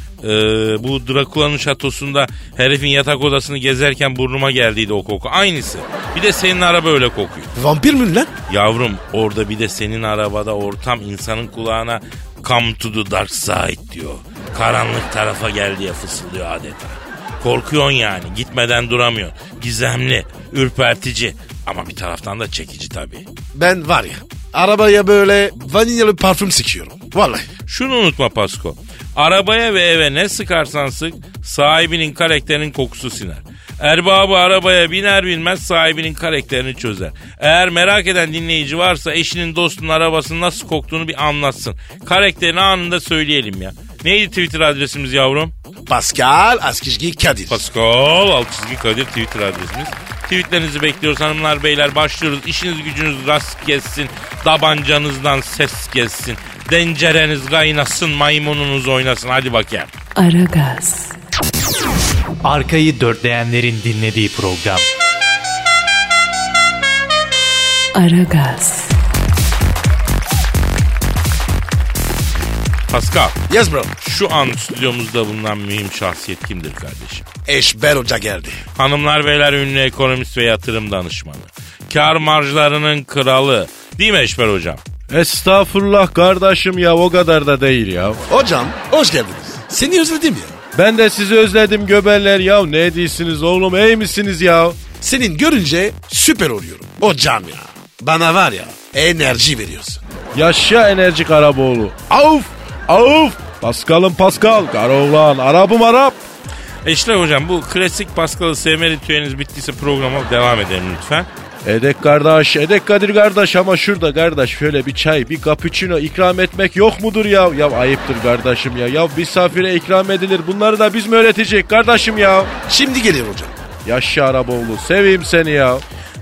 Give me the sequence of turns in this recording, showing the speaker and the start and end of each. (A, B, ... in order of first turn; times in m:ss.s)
0:00.2-0:07.5 A
0:07.6-0:08.3 B
0:08.5-0:23.2 A
0:23.6-0:27.5 B
0:27.7-0:45.5 A
0:45.9-0:47.6 B
0:47.5-0:59.9 A
1:00.2-1:01.2 C
1:02.4-1:04.9 D
1:07.9-1:09.0 C
1:12.9-1:13.4 A
1:13.5-1:13.9 B
1:14.0-1:17.3 A
1:17.5-1:18.6 B
1:18.8-1:24.8 A
1:25.1-1:28.2 E
1:28.3-1:30.6 B
1:30.8-1:34.8 E
1:35.0-1:40.0 B
1:40.3-1:46.2 E
1:46.8-1:51.3 A
1:51.6-2:02.5 E
2:02.7-2:03.5 B
2:03.8-2:05.8 E